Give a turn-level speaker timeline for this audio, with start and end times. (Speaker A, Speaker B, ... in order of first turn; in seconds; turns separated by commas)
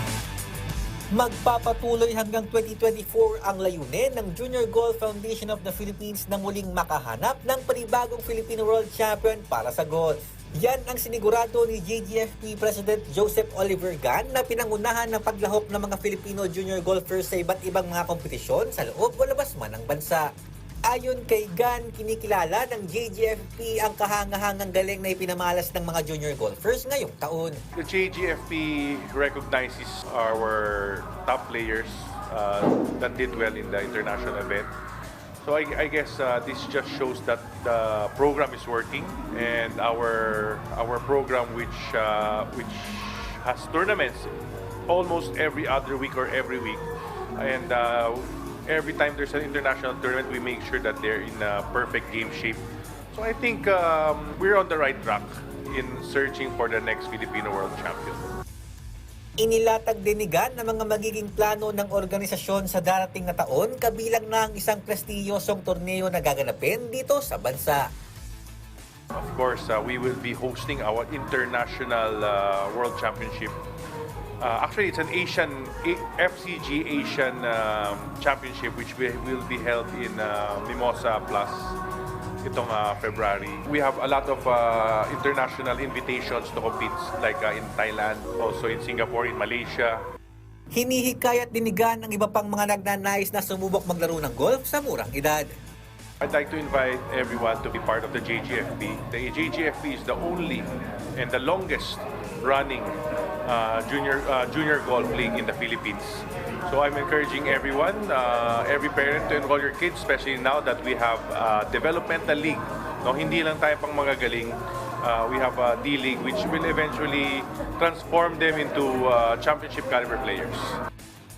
Speaker A: 1.1-20.2, Speaker A: 20.9-27.6, Speaker B: 27.7-34.7, Speaker B: 35.4-44.3, Speaker B: 44.9-58.2, Speaker A: 59.4-67.8, Speaker B: 69.1-73.5, Speaker B: 74.4-81.8, Speaker B: 82.4-90.0, Speaker A: 90.7-95.5, Speaker B: 96.2-120.8